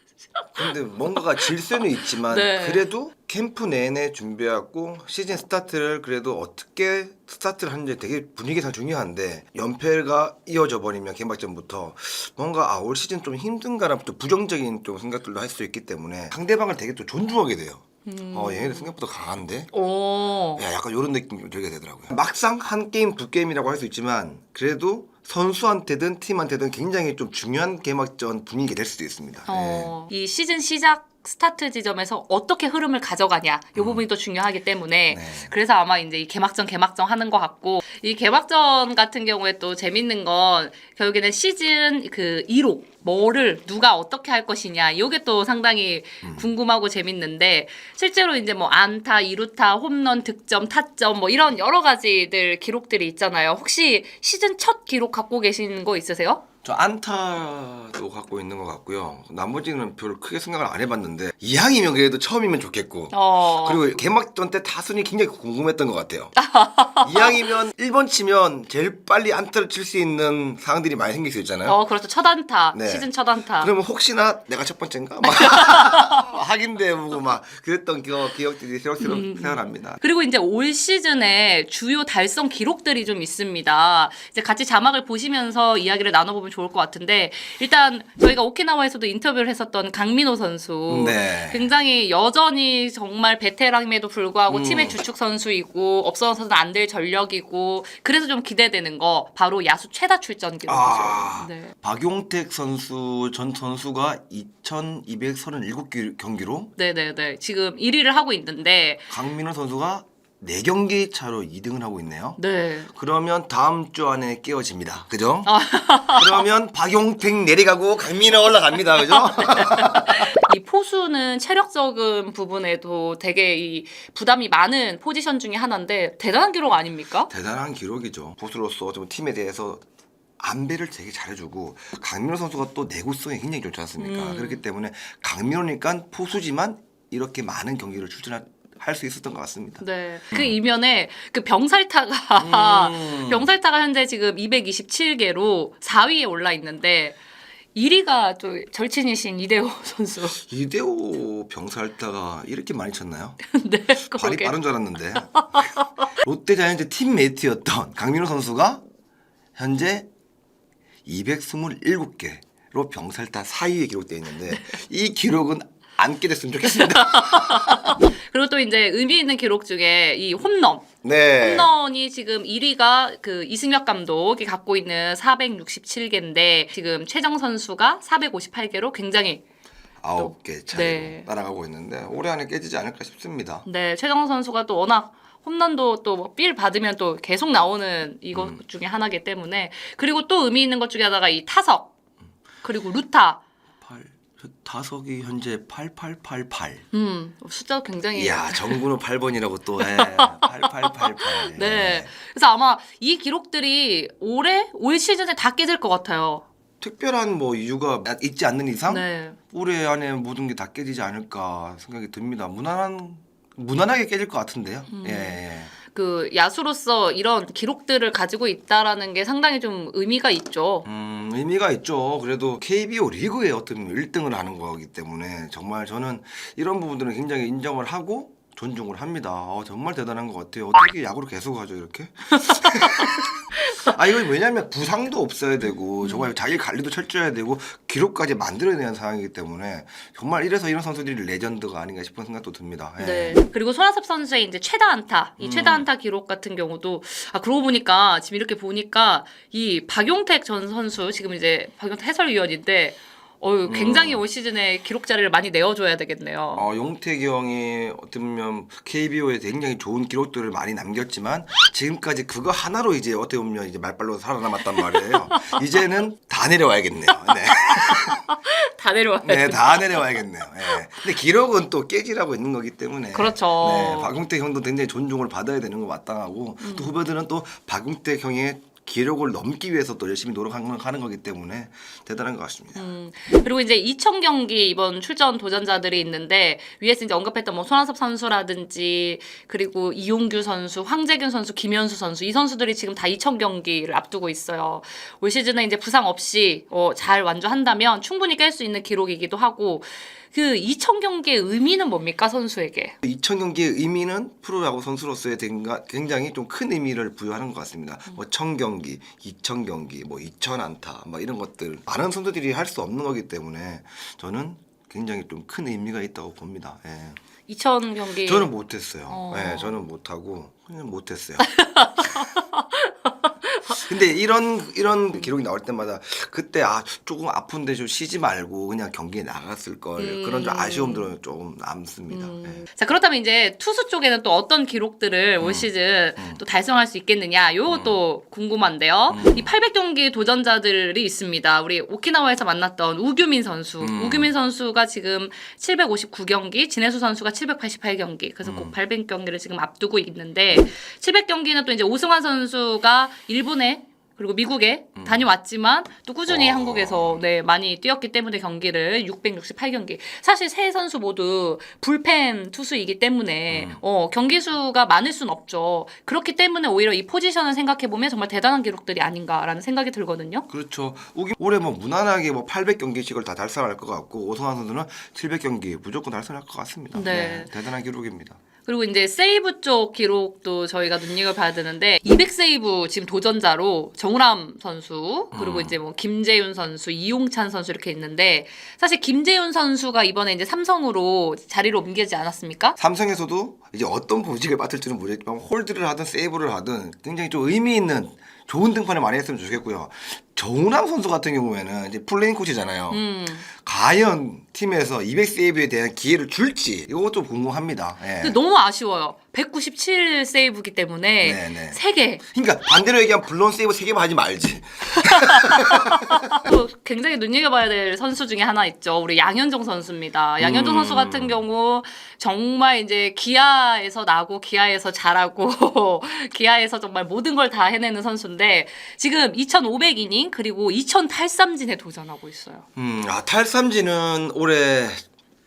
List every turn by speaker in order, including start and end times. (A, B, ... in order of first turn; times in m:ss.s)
0:00.5-0:19.7 A
0:01.1-0:01.5 B
0:02.0-0:02.9 B
0:18.0-0:19.0 B
0:19.7-0:20.6 B
0:20.6-0:29.9 A
0:29.5-0:56.4 B
0:33.8-0:34.0 A
0:35.1-0:35.5 A
0:46.2-0:46.5 A
0:56.6-1:06.4 A
1:03.1-1:03.8 B
1:06.4-1:07.4 B
1:07.0-1:11.8 A
1:11.6-1:13.7 B
1:12.7-1:20.0 A
1:15.3-1:16.1 B
1:19.0-1:41.7 B
1:30.9-1:31.7 A
1:34.5-1:35.0 A
1:40.7-1:46.7 A
1:46.8-1:49.2 B
1:49.1-2:00.3 A
1:52.4-1:52.9 B
1:55.5-1:56.5 B
1:59.2-2:07.3 B
2:07.3-2:09.8 A
2:10.4-2:20.6 A
2:14.0-2:14.6 B
2:19.8-2:27.2 B
2:22.4-2:23.5 A
2:27.8-2:30.4 B
2:30.4-2:33.5 A
2:33.5-2:34.6 B
2:34.1-2:38.8 A
2:35.1-2:35.9 B
2:39.6-2:40.1 A
2:41.1-2:48.0 A
2:46.6-2:59.4 B
2:51.0-2:51.7 A
3:00.0-3:03.6 A
3:00.2-3:01.3 B
3:03.6-3:11.9 B
3:08.3-3:08.6 A
3:12.6-3:13.4 B
3:13.8-3:16.8 A
3:16.9-3:18.8 B
3:18.1-3:22.1 A
3:19.8-3:26.4 B
3:26.8-3:35.7 A
3:28.9-3:29.4 B
3:34.9-3:40.9 B
3:40.8-4:03.4 A
3:52.4-3:53.9 B
3:56.0-3:56.3 B
4:03.0-4:16.7 B
4:05.4-4:05.9 A
4:13.6-4:14.2 A
4:16.5-4:28.3 A
4:24.7-4:25.7 B
4:27.3-4:30.8 B
4:29.2-4:42.8 A
4:33.1-4:34.2 B
4:36.6-4:37.0 B
4:42.8-5:03.0 B
5:03.0-5:17.2 A
5:17.5-5:18.5 B
5:18.2-5:21.6 A
5:19.1-5:19.8 B
5:21.5-5:23.9 B
5:23.8-5:32.6 A
5:30.0-5:31.1 B
5:32.1-6:10.5 B
5:35.4-5:36.4 A
5:37.7-5:38.0 A
5:39.1-5:39.5 A
5:43.8-5:44.3 A
5:48.4-5:48.8 A
5:55.0-5:55.3 A
5:56.3-5:57.2 A
6:03.5-6:03.8 A
6:10.5-6:18.4 A
6:16.9-6:17.5 B
6:18.7-6:32.8 B
6:25.3-6:25.8 A
6:32.8-6:48.4 A
6:42.9-6:43.5 B
6:48.2-6:52.2 B
6:51.2-6:56.4 A
6:56.3-7:12.7 B
7:00.4-7:01.4 A
7:12.8-7:15.0 A